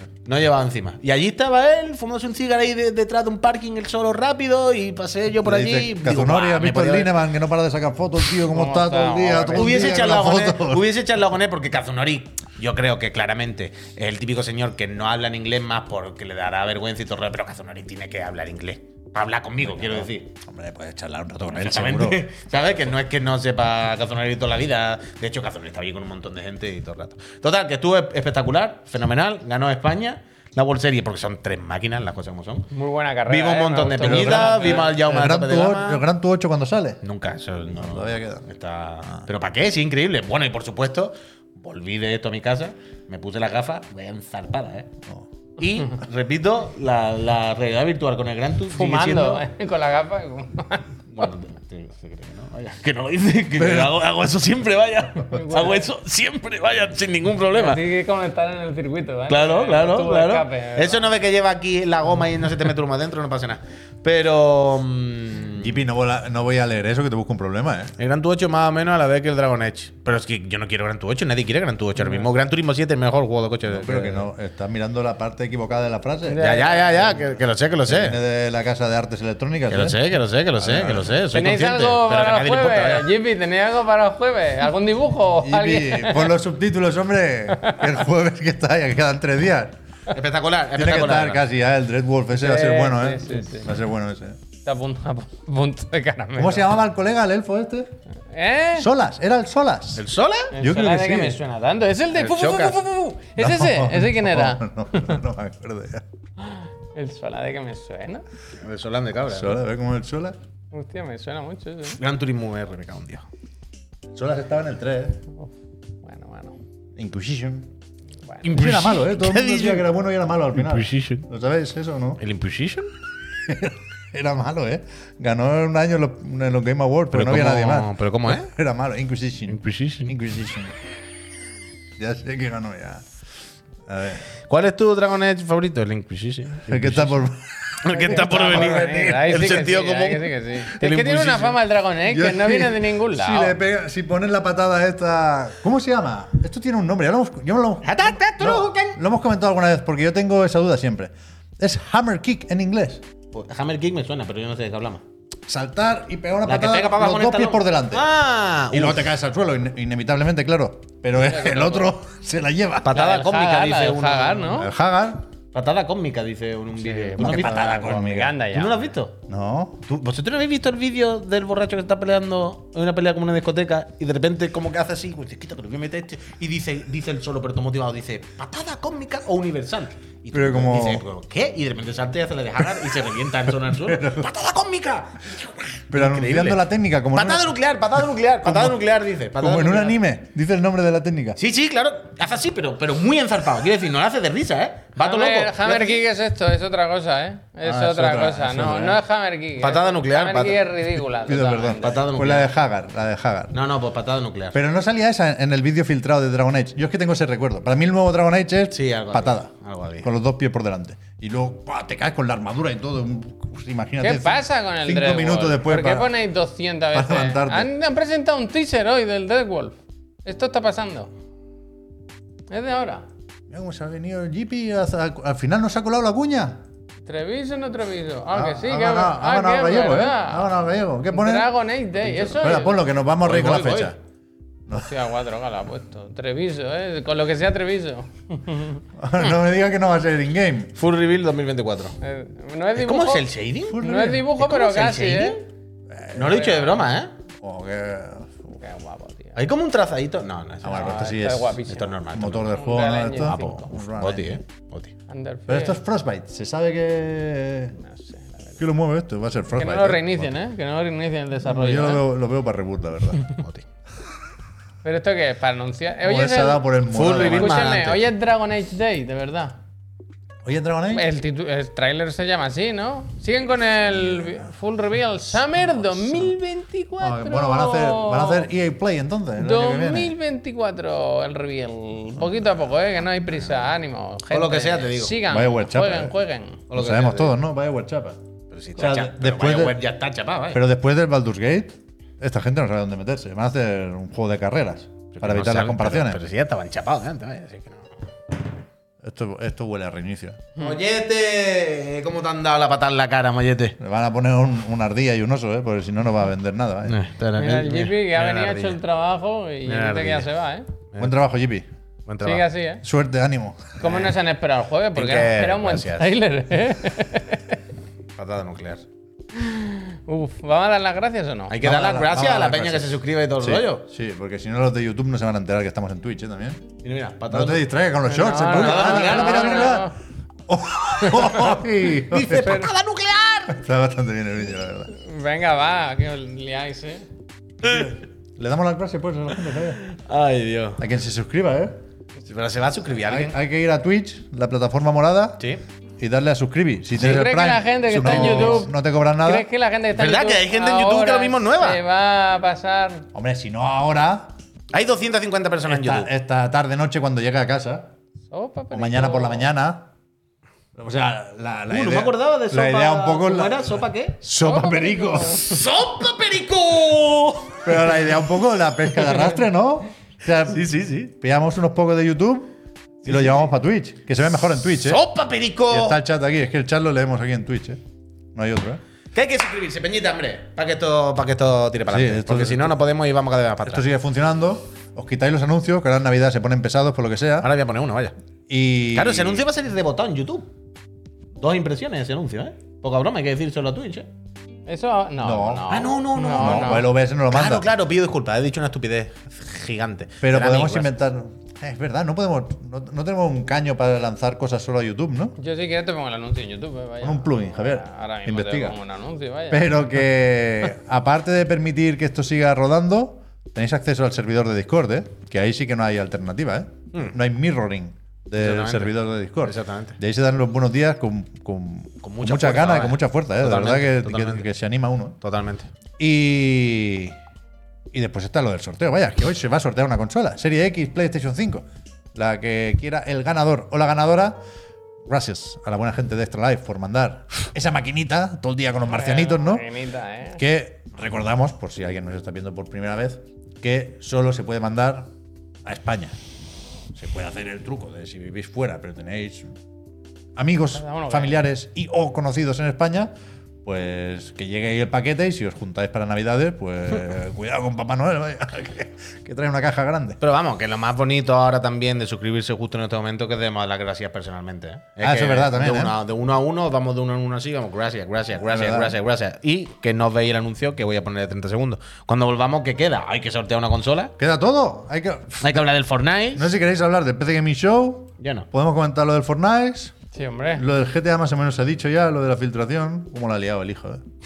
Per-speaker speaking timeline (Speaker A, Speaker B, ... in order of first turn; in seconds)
Speaker A: 0.2-7.2, 9.6-20.3, 21.5-32.7, 33.2-36.0, 37.0-44.9, 45.6-49.4, 51.1-57.8, 59.3-65.8, 68.0-74.2, 76.4-78.2, 79.7-83.1, 90.1-91.4, 100.0-100.5, 102.1-102.8, 108.6-109.6, 112.0-113.2, 118.4-119.9, 120.5-121.2, 122.2-122.9, 127.1-128.5, 129.5-130.1, 134.5-137.2, 137.8-141.6, 147.8-149.0, 153.3-155.0, 156.4-159.1, 162.8-164.6, 165.5-169.2, 169.9-186.6, 187.1-190.0, 191.4-196.0, 199.6-200.7, 201.8-202.5, 203.5-204.6, 208.7-210.1, 233.2-233.9, 240.8-242.0, 242.8-245.4, 246.1-247.1, 249.3-251.2, 251.7-252.6, 253.2-254.9, 263.4-263.6, 266.9-268.0, 284.3-285.2, 286.7-287.3, 288.5-290.6, 295.1-297.9, 300.6-303.8, 306.9-308.8, 309.7-310.3, 312.1-312.5, 313.8-314.1, 314.9-316.1, 318.2-318.8, 321.5-323.8, 326.8-327.6, 328.4-329.8, 330.9-333.6, 337.6-337.9, 339.8-340.8, 342.2-343.4, 348.0-348.6, 349.9-351.8, 354.7-356.1, 361.7-364.2, 365.4-368.2, 368.9-369.3, 370.5-371.1, 373.1-373.4, 374.8-376.0, 379.1-383.8, 387.4-388.1, 388.9-390.5, 391.4-394.1, 395.7-400.9, 418.4-420.0, 422.0-424.5, 425.2-425.7, 460.2-474.1, 475.4-476.5, 478.2-478.5
Speaker B: 5.4-10.8, 19.6-22.2, 34.0-37.0, 37.7-38.5, 53.5-54.0, 65.6-67.9, 73.7-77.2, 77.9-80.0, 80.6-81.1, 85.4-89.8, 90.7-94.4, 96.3-97.9, 98.8-100.0, 100.6-101.4, 103.4-106.0, 109.3-110.4, 114.1-115.2, 117.0-117.7, 118.5-122.2, 123.4-130.7, 132.0-133.0, 133.9-134.2, 136.7-138.8, 142.1-153.0, 155.5-158.1, 158.7-163.0, 164.5-165.2, 167.2-168.3, 169.3-169.8, 180.3-181.0, 183.7-184.3, 185.9-187.5, 188.4-188.8, 189.4-191.4, 197.6-199.0, 201.2-203.5, 204.5-209.5, 210.0-216.1, 216.9-217.7, 223.5-226.6, 228.3-234.0, 239.0-240.7, 243.7-244.3, 245.9-246.5, 247.4-248.4, 250.6-254.4, 255.5-257.8, 258.6-260.3, 261.4-263.3, 266.0-267.8, 270.4-271.1, 277.0-280.1, 285.3-286.1, 286.7-288.2, 288.8-289.8, 290.5-296.2, 299.0-300.4, 303.8-307.0, 311.0-311.6, 312.8-313.8, 321.6-326.6, 327.3-329.9, 330.5-332.7, 333.5-334.9, 337.6-339.8, 340.8-341.8, 343.0-345.4, 346.0-349.4, 353.1-354.3, 355.7-357.9, 358.7-359.9, 360.8-365.6, 367.6-372.5, 373.0-375.0, 375.7-377.8, 378.3-378.8, 381.9-382.8, 383.6-387.5, 388.5-389.4, 395.2-397.7, 400.2-405.3, 407.0-408.8, 409.5-425.2, 426.0-427.1, 427.9-434.4, 435.1-439.6, 440.4-445.1, 445.6-446.1, 446.9-449.5, 450.4-453.1, 453.6-460.2, 465.0-466.0, 468.4-468.9, 474.2-475.6, 476.3-479.9, 480.5-484.0
Speaker C: 8.5-10.0, 32.7-34.9, 48.7-50.9, 55.2-55.9, 57.5-61.1, 76.3-76.9, 81.3-86.3, 87.6-87.9, 92.3-93.7, 94.6-96.7, 98.3-98.9, 100.5-105.2, 106.4-108.2, 110.7-112.0, 116.0-116.6, 137.9-143.6, 161.2-161.9, 162.9-164.7, 166.8-168.8, 195.0-202.0, 214.0-221.1, 222.5-223.0, 227.1-230.5, 231.1-232.8, 234.7-239.3, 242.0-243.2, 243.8-245.4, 248.6-249.4, 250.6-252.0, 252.5-253.7, 255.1-255.8, 257.8-258.6, 259.5-262.0, 264.8-266.7, 267.2-269.6, 270.9-278.5, 279.4-286.6, 307.4-310.7, 312.2-312.8, 313.8-317.5, 319.3-321.6, 328.1-329.9, 334.9-337.0, 347.0-353.1, 358.3-359.5, 364.4-365.5, 394.6-396.9, 405.4-409.8, 438.9-440.4, 450.7-451.4, 480.1-480.6